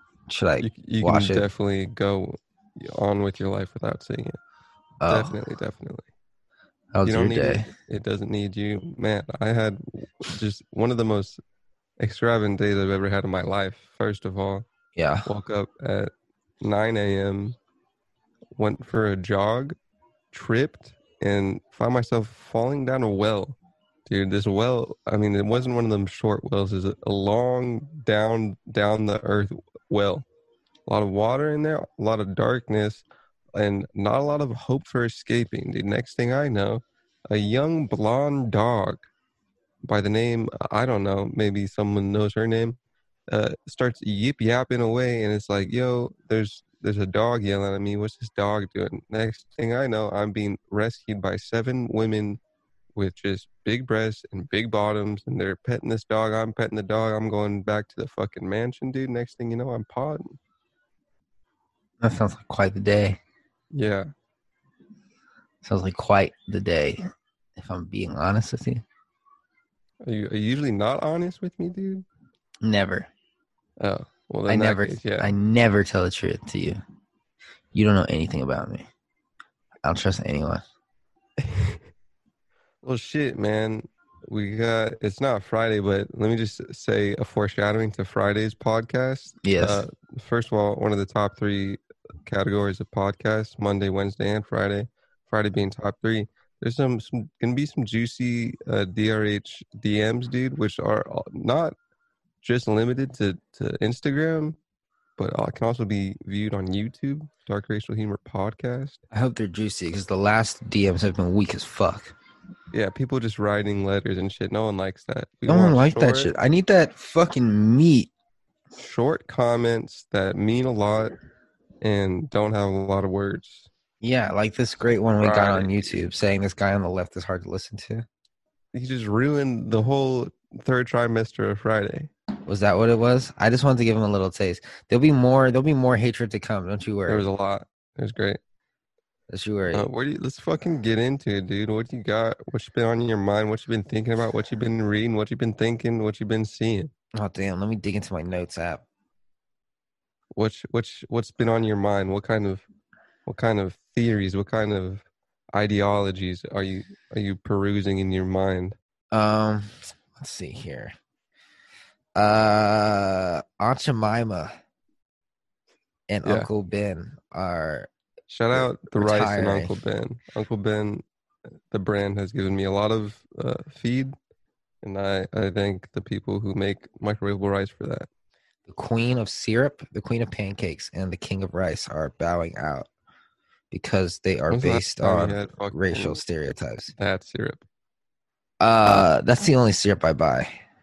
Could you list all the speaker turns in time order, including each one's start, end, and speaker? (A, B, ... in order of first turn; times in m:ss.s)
0:00.3-0:01.4 A
0:00.6-0:04.4 B
0:05.0-0:05.3 A
0:05.0-0:06.1 B
0:06.9-0:07.7 A
0:07.0-0:11.4 B
0:12.0-0:14.6 B
0:15.0-0:15.3 A
0:15.2-0:17.6 B
0:18.5-0:19.8 B
0:20.3-0:30.2 B
0:30.8-0:39.1 B
0:39.8-0:42.8 B
0:43.3-0:52.4 B
0:52.9-1:00.4 B
1:02.0-1:03.2 A
1:03.7-1:04.1 B
1:05.6-1:07.1 A
1:07.6-1:08.8 A
1:10.0-1:12.0 B
1:12.6-1:13.1 A
1:13.8-1:15.3 B
1:14.5-1:16.8 A
1:17.7-1:18.8 A
1:19.8-1:20.6 A
1:21.4-1:21.8 B
1:22.8-1:41.8 B
1:29.4-1:29.8 A
1:42.4-1:44.6 B
1:45.2-1:49.0 B
1:49.1-1:52.1 A
1:52.7-1:56.3 B
1:55.5-1:58.1 A
1:58.8-2:01.1 B
2:01.8-2:03.7 B
2:04.0-2:08.0 A
2:05.2-2:06.0 B
2:08.7-2:12.1 B
2:12.5-2:17.3 A
2:17.1-2:18.4 B
2:19.3-2:19.9 A
2:19.7-2:26.9 B
2:27.2-2:28.8 A
2:30.3-2:32.6 B
2:33.2-2:38.8 B
2:39.1-2:40.9 A
2:42.2-2:44.5 A
2:46.1-2:47.9 A
2:46.2-2:46.5 B
2:48.3-2:51.0 B
2:48.5-2:49.7 A
2:51.7-2:54.2 B
2:54.8-2:58.1 B
2:58.7-3:02.9 A
3:03.7-3:06.9 A
3:04.5-3:06.2 B
3:07.0-3:07.6 B
3:08.6-3:10.5 A